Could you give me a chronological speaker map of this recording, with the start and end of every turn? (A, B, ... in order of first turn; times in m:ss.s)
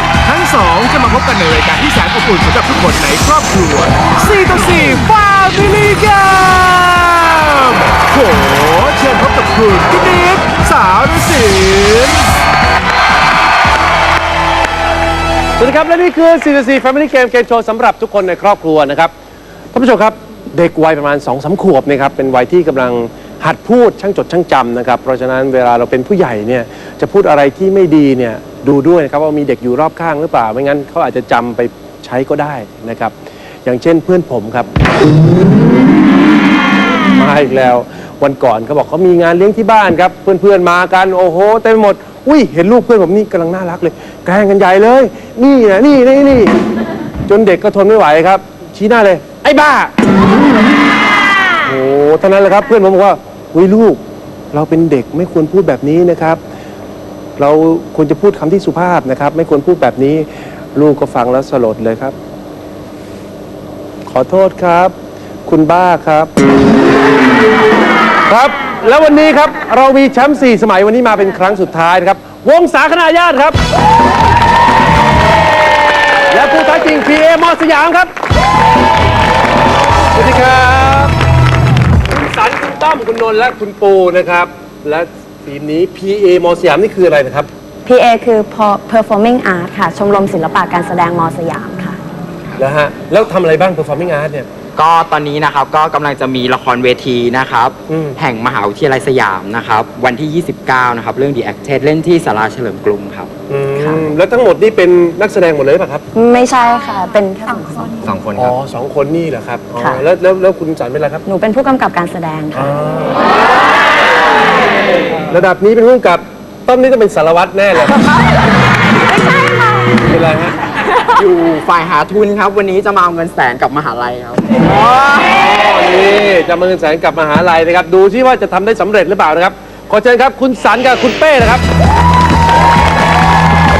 0:00.2-0:12.3 A
0:15.6-0:19.1 B
0:19.7-0:34.7 B
0:37.1-0:46.5 B
0:47.3-0:49.9 B
0:51.6-0:54.0 B
0:54.5-0:56.4 B
0:57.4-1:02.1 B
1:04.0-1:04.9 B
1:05.4-1:06.3 B
1:08.3-1:13.6 B
1:16.3-1:18.1 B
1:20.1-1:21.1 B
1:22.1-1:27.5 B
1:27.8-1:32.0 C
1:32.6-1:34.5 B
1:34.8-1:43.3 D
1:37.9-1:38.2 B
1:43.5-1:46.0 B
1:46.1-1:48.0 C
1:48.0-1:48.5 D
1:48.4-1:51.2 B
1:49.8-1:50.0 C
1:51.2-1:52.7 C
1:52.5-1:53.2 B
1:55.3-1:58.0 B
1:59.4-1:59.9 C
2:00.0-2:00.6 B
2:01.1-2:04.6 D
2:05.3-2:11.6 B